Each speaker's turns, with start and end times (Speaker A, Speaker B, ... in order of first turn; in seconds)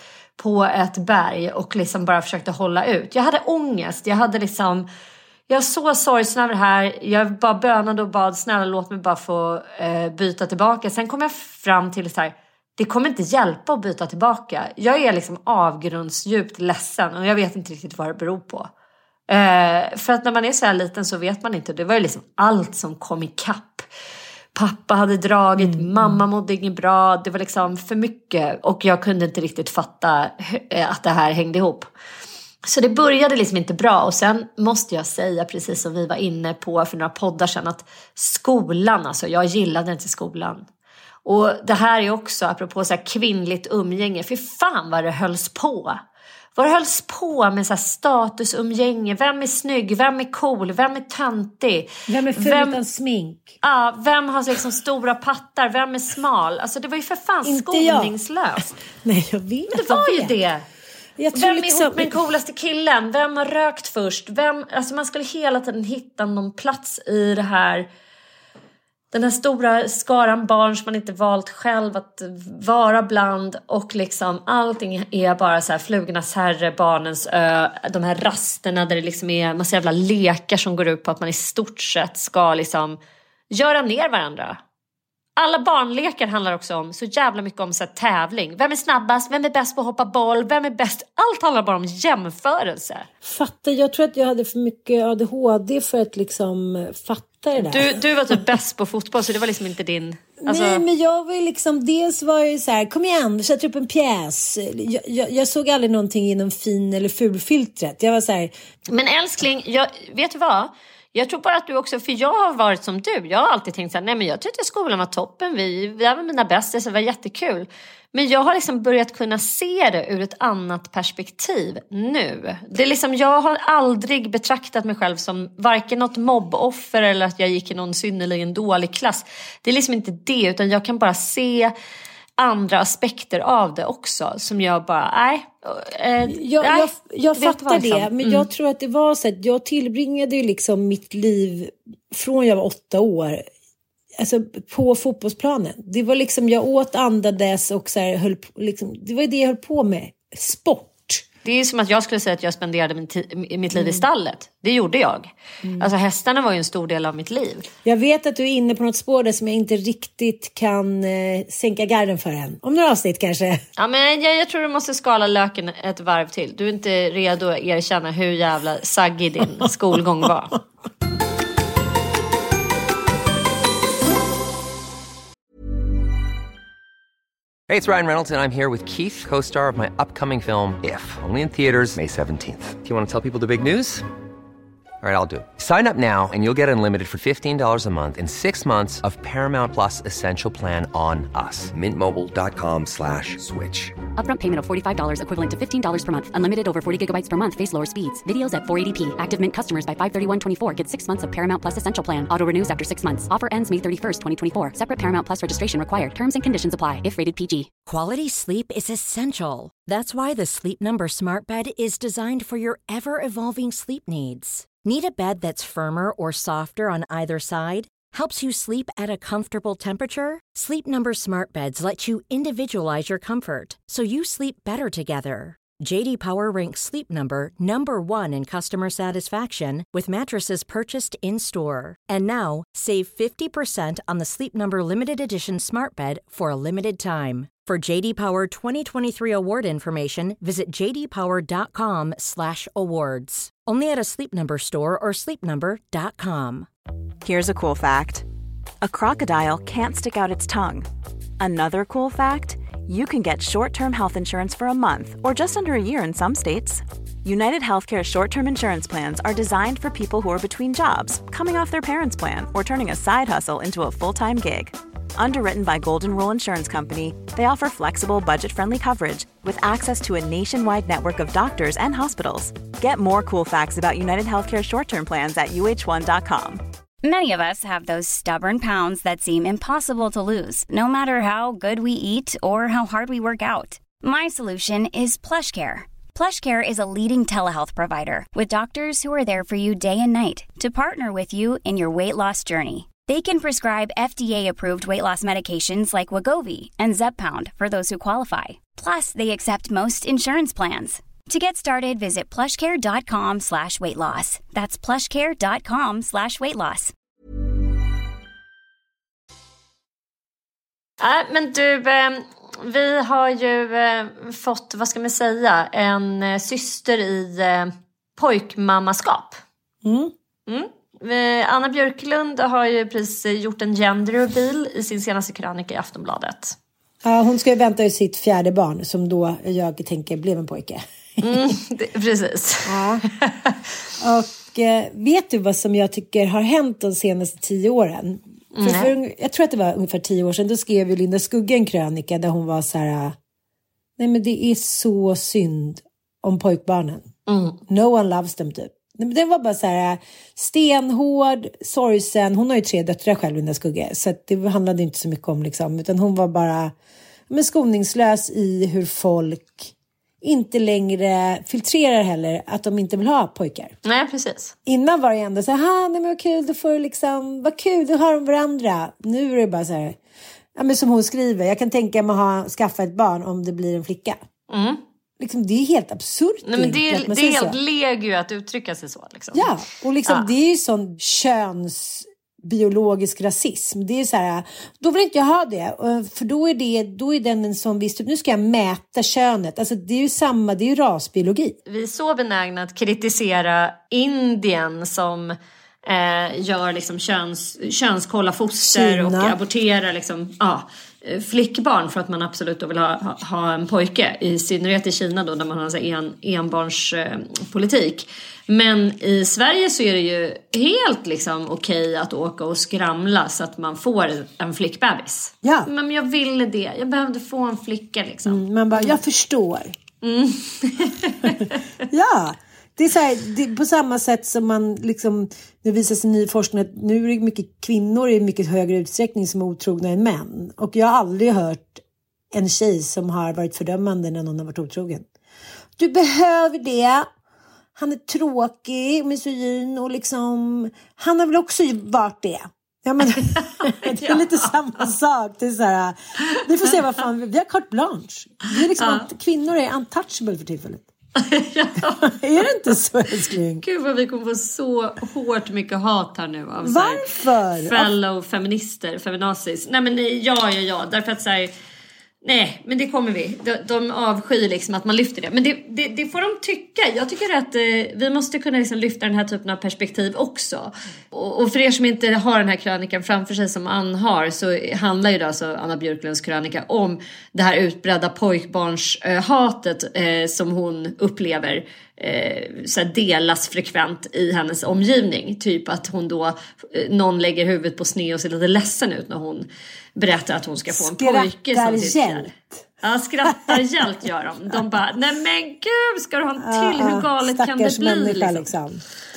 Speaker A: 0.4-4.9, 5.5-18.7, 19.3-23.9, 24.6-31.9, 32.6-40.7, 41.2-46.0, 46.6-52.8, 53.6-58.7, 59.7-60.6, 61.3-67.9, 69.1-83.0, 83.5-84.6, 85.4-93.1, 97.6-100.8, 108.9-131.7, 132.4-138.5, 151.4-157.7, 163.8-170.6, 311.0-319.4, 320.5-326.6, 331.2-333.5, 338.6-338.9, 347.3-347.6, 363.9-364.6, 374.5-374.8, 376.5-379.5, 391.7-419.0, 420.0-421.6, 443.6-444.5, 448.7-449.1, 451.2-452.1, 453.6-457.1, 457.6-461.5, 462.2-492.3, 492.8-498.5
Speaker B: 25.6-26.2, 52.1-53.6, 57.4-58.1, 59.0-60.4, 61.2-62.2, 93.2-98.4, 100.4-108.5, 136.3-143.4, 144.2-151.2, 153.7-154.0, 155.6-155.9, 157.8-163.6, 319.8-320.1, 327.0-331.3, 332.6-333.1, 334.0-343.2, 344.0-347.1, 347.7-356.7, 357.3-363.8, 364.7-370.0, 370.6-374.2, 375.2-377.6, 379.3-391.6, 398.6-399.4, 415.4-415.7, 418.2-419.7, 421.9-435.1, 435.8-437.1, 437.8-450.9, 452.0-453.6, 456.6-457.9, 490.7-492.6, 493.3-493.6, 496.4-498.8
Speaker C: 177.7-184.1, 185.0-194.0
Speaker D: 194.1-207.7
Speaker E: 207.9-246.7
Speaker F: 247.2-248.3, 248.8-250.9, 251.4-276.6
Speaker G: 277.0-306.9